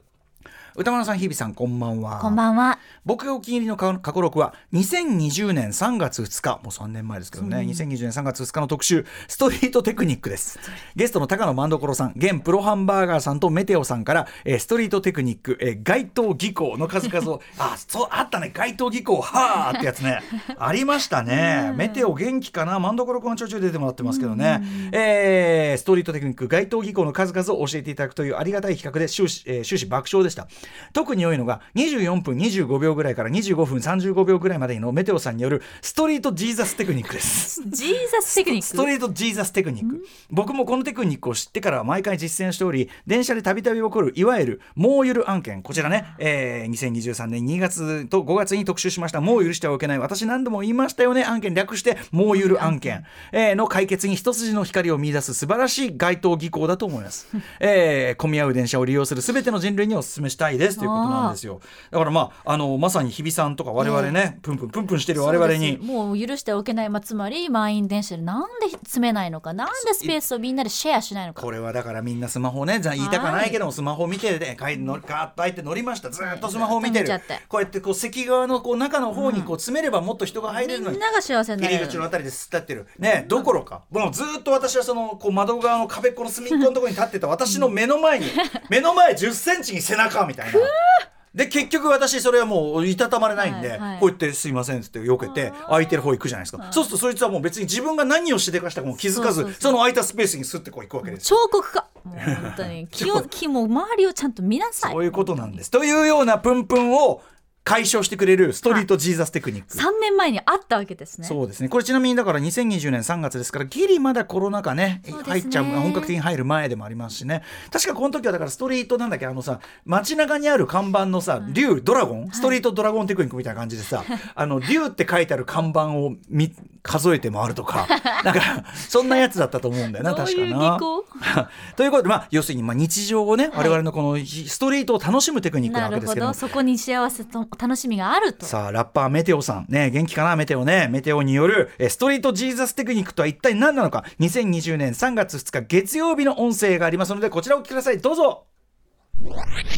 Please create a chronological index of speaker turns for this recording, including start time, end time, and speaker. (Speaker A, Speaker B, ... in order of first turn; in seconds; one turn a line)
Speaker A: 0.7-2.4
Speaker B: 2.2-2.8
Speaker A: 2.9-37.7
Speaker B: 7.4-7.8
Speaker B: 21.3-22.1
Speaker B: 24.0-24.9
Speaker B: 37.6-38.9
Speaker A: 38.3-65.8
Speaker B: 52.3-53.0
Speaker B: 60.8-61.4
Speaker B: 63.8-64.2
Speaker B: 65.1-71.5
Speaker A: 69.7-70.2
Speaker A: 71.4-81.0
Speaker B: 73.0-73.6
Speaker B: 76.2-77.4
Speaker B: 79.1-79.5
Speaker B: 80.5-82.0
Speaker A: 81.6-90.7
Speaker B: 83.2-83.5
Speaker B: 87.5-87.7
Speaker B: 90.5-91.0
Speaker A: 91.3-101.3
Speaker B: 93.4-94.1
Speaker B: 95.2-96.9
Speaker B: 99.1-99.8
Speaker B: 101.0-105.6
Speaker A: 102.2-103.3
Speaker A: 104.8-109.8
Speaker B: 109.7-111.4
Speaker A: 111.2-136.4
Speaker B: 115.1-116.1
Speaker B: 122.3-122.6
Speaker B: 130.0-131.1
Speaker B: 133.5-133.8
Speaker B: 135.6-138.5
Speaker A: 138.4-148.4